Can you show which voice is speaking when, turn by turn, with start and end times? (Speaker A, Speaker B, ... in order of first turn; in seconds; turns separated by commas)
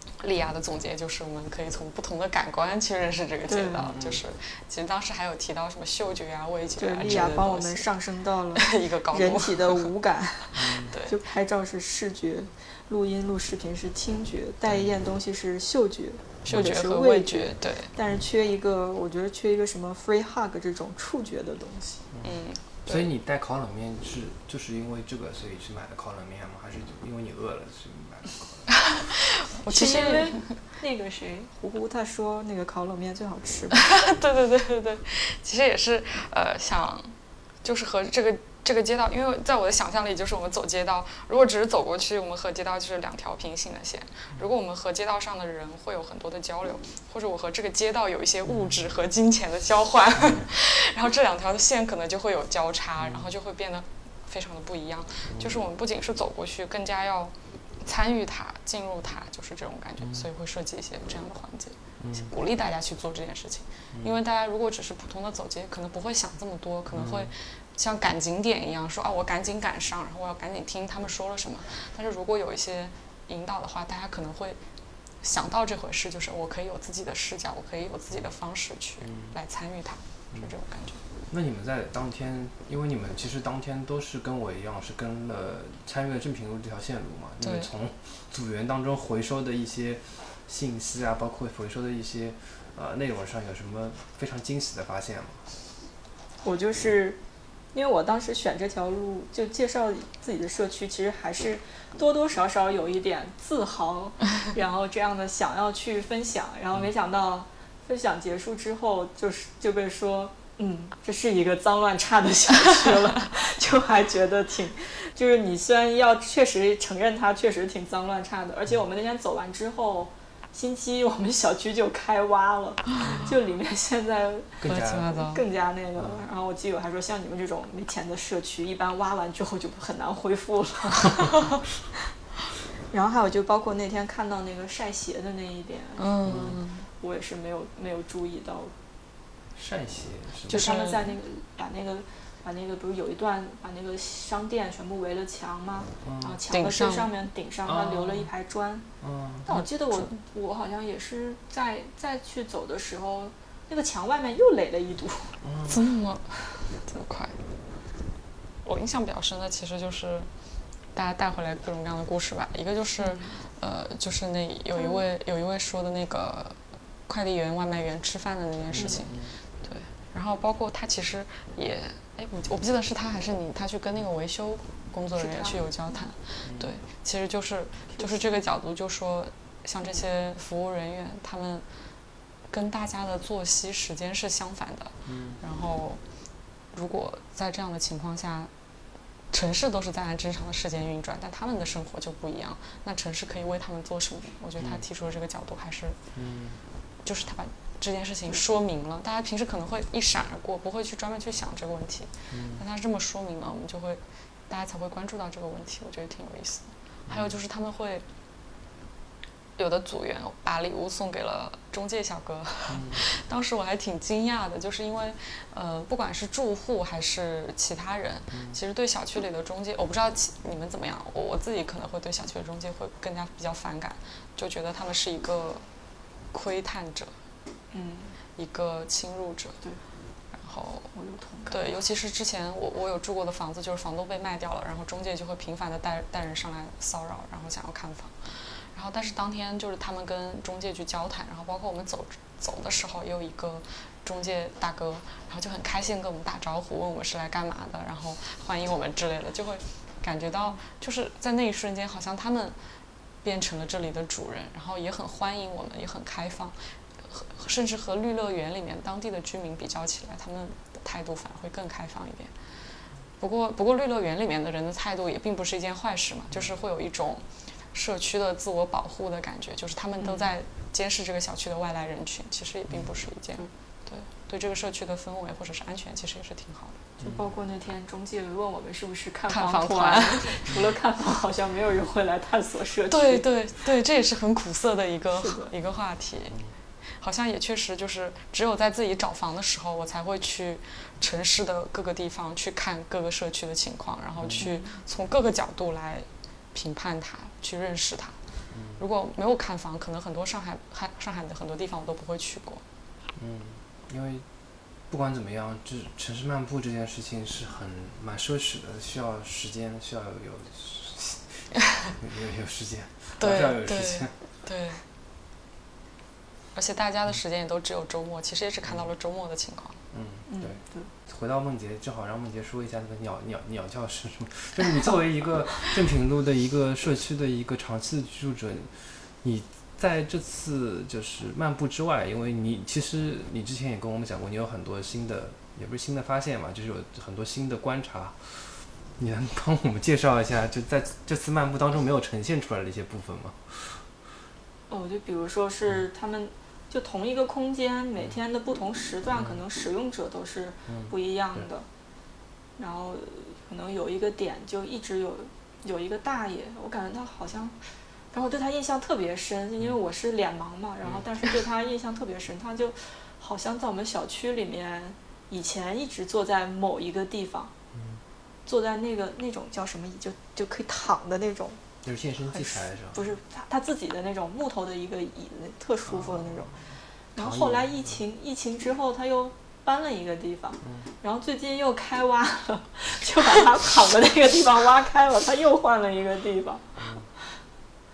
Speaker A: 0.2-7.9, Speaker B: 3.5-3.9, Speaker C: 3.8-4.2, Speaker B: 6.8-22.1, Speaker C: 7.0-7.4, Speaker A: 8.6-9.9, Speaker C: 10.5-10.9, Speaker A: 10.7-11.2, Speaker C: 14.7-15.0, Speaker A: 16.4-17.9, Speaker C: 22.1-28.8, Speaker A: 22.2-23.1, Speaker A: 29.5-30.7, Speaker B: 29.7-33.8, Speaker A: 33.7-74.6, Speaker C: 53.0-53.3, Speaker C: 55.3-55.6, Speaker C: 60.0-60.3, Speaker C: 62.0-62.3, Speaker C: 66.9-67.3, Speaker A: 75.2-81.0, Speaker C: 79.0-79.4, Speaker C: 81.3-95.5, Speaker A: 87.4-87.7, Speaker B: 96.4-97.2, Speaker B: 97.7-124.6, Speaker C: 123.0-123.3, Speaker C: 124.6-125.3, Speaker A: 124.7-125.5, Speaker B: 125.2-131.3, Speaker C: 126.0-126.3, Speaker B: 132.9-138.7, Speaker A: 136.0-136.9, Speaker C: 136.2-136.6, Speaker C: 139.5-140.6, Speaker B: 140.5-148.9, Speaker A: 140.5-141.1, Speaker C: 146.0-146.4, Speaker A: 146.5-147.2, Speaker C: 147.7-148.3, Speaker C: 149.0-149.5, Speaker A: 149.5-150.2, Speaker B: 149.5-155.4, Speaker C: 155.4-155.8, Speaker A: 155.7-157.4, Speaker A: 158.6-160.3, Speaker A: 160.9-181.7, Speaker B: 163.0-163.4, Speaker B: 164.7-165.1, Speaker C: 168.7-169.3, Speaker B: 168.7-169.1, Speaker B: 175.1-176.1, Speaker C: 176.4-176.7, Speaker B: 177.9-178.4, Speaker A: 182.5-186.0, Speaker C: 185.1-185.4, Speaker A: 186.7-188.5, Speaker A: 189.3-196.0, Speaker C: 196.2-196.6, Speaker A: 197.0-208.1, Speaker C: 202.3-202.6, Speaker C: 207.1-207.4, Speaker A: 209.6-225.7, Speaker C: 212.7-213.0, Speaker C: 218.3-218.6, Speaker A: 226.2-227.2, Speaker B: 227.7-228.2, Speaker A: 228.3-229.7, Speaker A: 230.3-231.0, Speaker B: 230.9-231.8, Speaker A: 231.5-262.5, Speaker A: 263.2-276.9, Speaker C: 266.3-266.6, Speaker B: 270.0-270.3, Speaker C: 272.7-272.9, Speaker B: 277.0-283.3, Speaker C: 277.0-277.3, Speaker A: 279.3-280.4, Speaker A: 282.9-302.6, Speaker B: 285.1-285.5, Speaker C: 294.2-294.5, Speaker B: 294.4-294.8, Speaker C: 298.5-298.8, Speaker C: 303.2-314.2, Speaker A: 313.2-314.8, Speaker A: 316.5-319.8, Speaker C: 318.6-318.9, Speaker C: 319.9-344.0, Speaker B: 320.3-320.9, Speaker B: 344.7-351.7, Speaker C: 349.1-349.4, Speaker C: 350.7-351.5, Speaker B: 352.6-357.6, Speaker B: 358.1-367.5, Speaker C: 360.8-361.1, Speaker C: 367.7-368.0, Speaker B: 368.5-371.6, Speaker C: 371.8-373.1, Speaker B: 372.3-386.8, Speaker C: 375.9-378.0, Speaker C: 380.6-380.9, Speaker C: 386.8-387.1